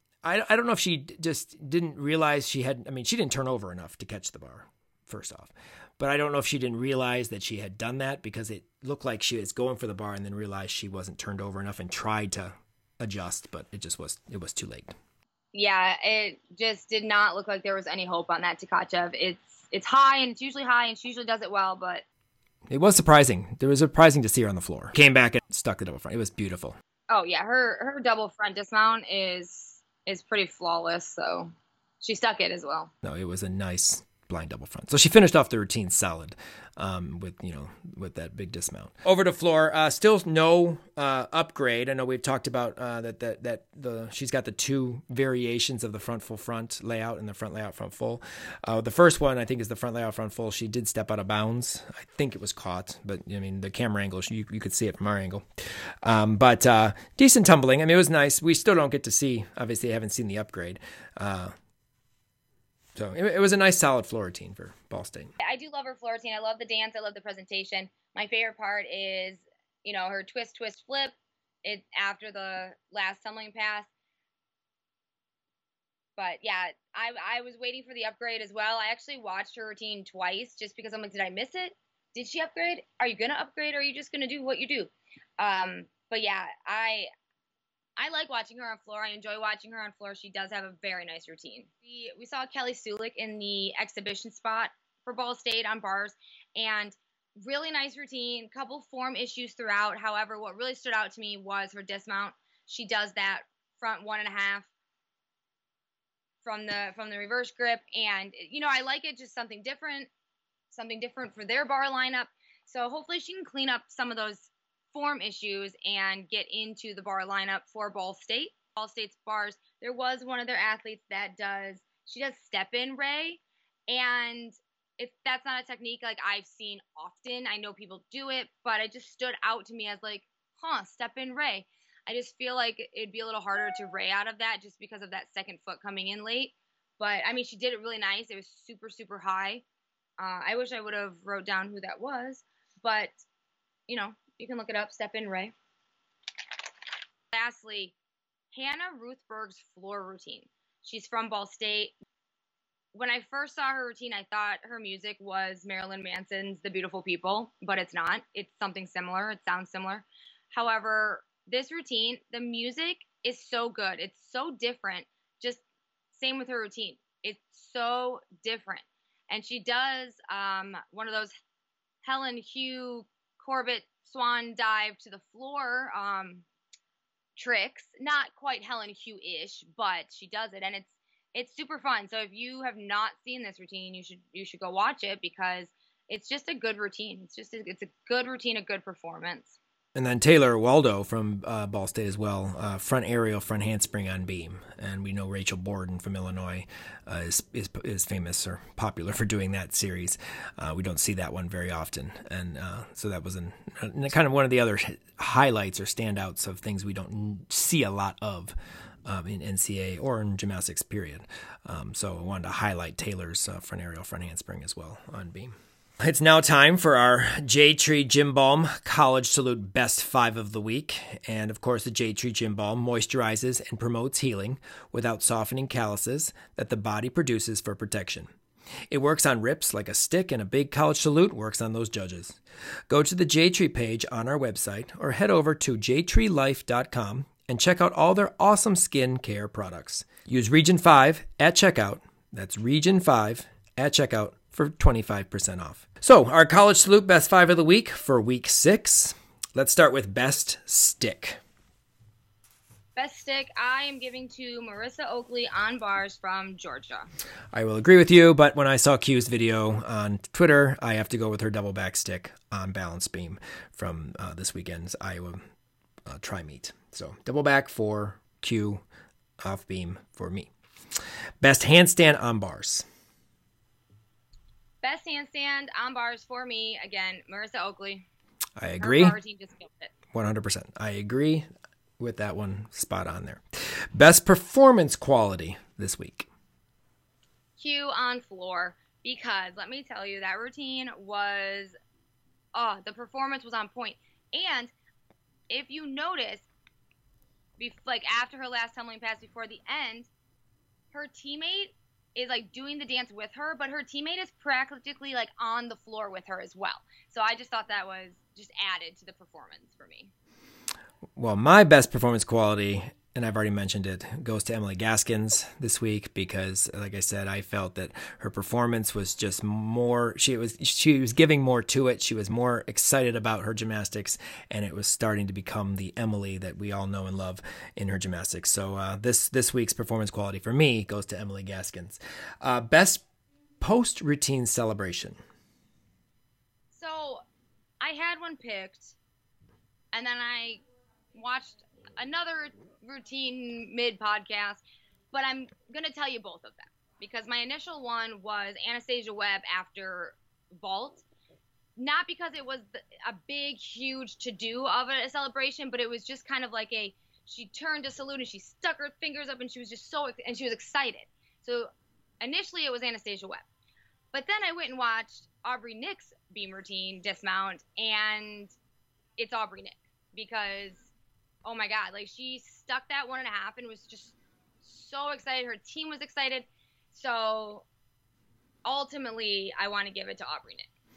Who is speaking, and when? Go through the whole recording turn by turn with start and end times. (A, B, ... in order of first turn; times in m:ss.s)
0:00.2-0:14.9 A
0:15.5-0:22.0 B
0:22.7-0:26.8 A
0:27.1-0:32.9 B
0:33.0-0:55.4 A
0:56.0-1:01.5 A
1:03.0-1:05.3 A
1:05.4-1:13.9 B
1:16.2-1:27.1 B
1:28.0-1:44.7 B
1:46.4-1:50.1 B
1:50.7-2:19.6 B
2:20.2-2:23.2 B
2:23.9-2:25.5 B
2:27.3-2:27.9 B
2:28.5-2:31.9 B
2:32.9-2:45.6 B
2:46.1-2:51.3 B
2:52.0-2:56.4 B
2:57.4-3:09.6 B
3:09.9-3:48.3 A
3:48.9-3:52.4 A
3:52.9-4:11.4 A
4:13.0-4:17.1 B
4:17.5-4:25.4 A
4:26.0-4:28.8 A
4:29.4-4:30.5 A
4:31.4-4:32.8 A
4:34.8-4:38.0 B
4:38.6-4:39.2 A
4:38.8-4:39.9 B
4:40.1-4:41.5 A
4:42.0-4:46.3 A
4:47.6-4:51.7 B
4:52.5-4:54.7 B
4:55.5-4:56.4 B
4:57.6-5:00.1 B
5:00.9-5:10.1 B
5:11.2-5:33.0 A
5:33.6-5:35.2 A
5:36.7-5:37.2 B
5:37.8-5:39.0 B
5:39.9-5:40.6 B
5:41.1-5:44.6 B
5:45.1-5:51.0 B
5:51.8-6:01.7 B
6:02.2-6:03.4 B
6:04.1-6:08.5 B
6:09.2-6:10.9 B
6:11.4-6:17.6 B
6:18.6-6:20.7 B